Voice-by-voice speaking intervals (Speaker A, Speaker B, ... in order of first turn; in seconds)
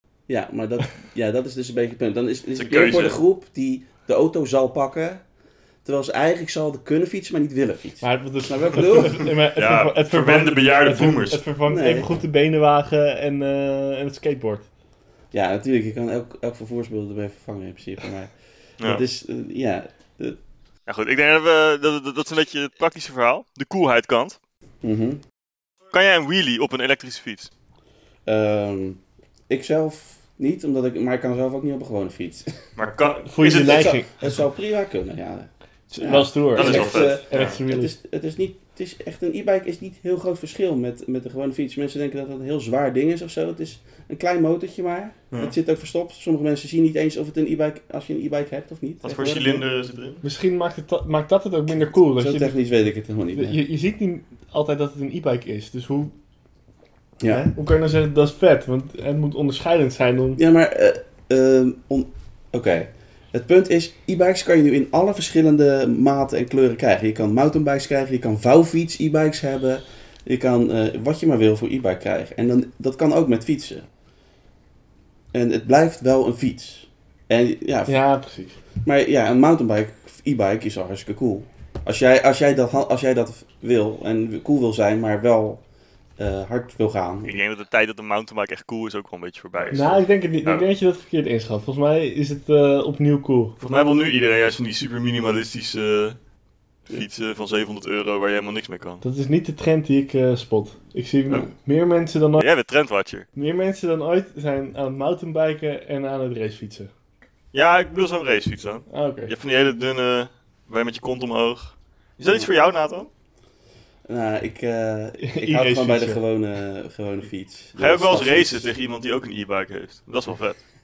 Speaker A: 0.3-5.2, 5.8-9.3, 11.7-12.1, 15.3-20.4, 24.8-25.2, 28.2-32.6, 33.4-49.6, 52.1-53.6, 57.2-57.5, 60.4-73.9, 75.3-78.0, 78.8-85.6, 86.2-87.3, 112.2-112.5, 114.1-118.7
Speaker B: 2.6-3.2, 9.5-11.4, 20.9-24.4, 25.9-27.5, 32.8-33.9, 36.5-37.6, 49.0-50.2, 87.2-90.7, 93.6-96.2, 96.9-99.0, 102.4-103.2, 107.5-113.1, 117.8-120.6
Speaker C: 8.0-14.7, 33.2-34.1, 35.9-37.9, 50.2-52.5, 53.3-56.1, 57.3-60.4, 77.9-78.5, 89.7-93.6, 99.0-102.4, 103.3-106.9, 108.9-109.3, 115.2-116.2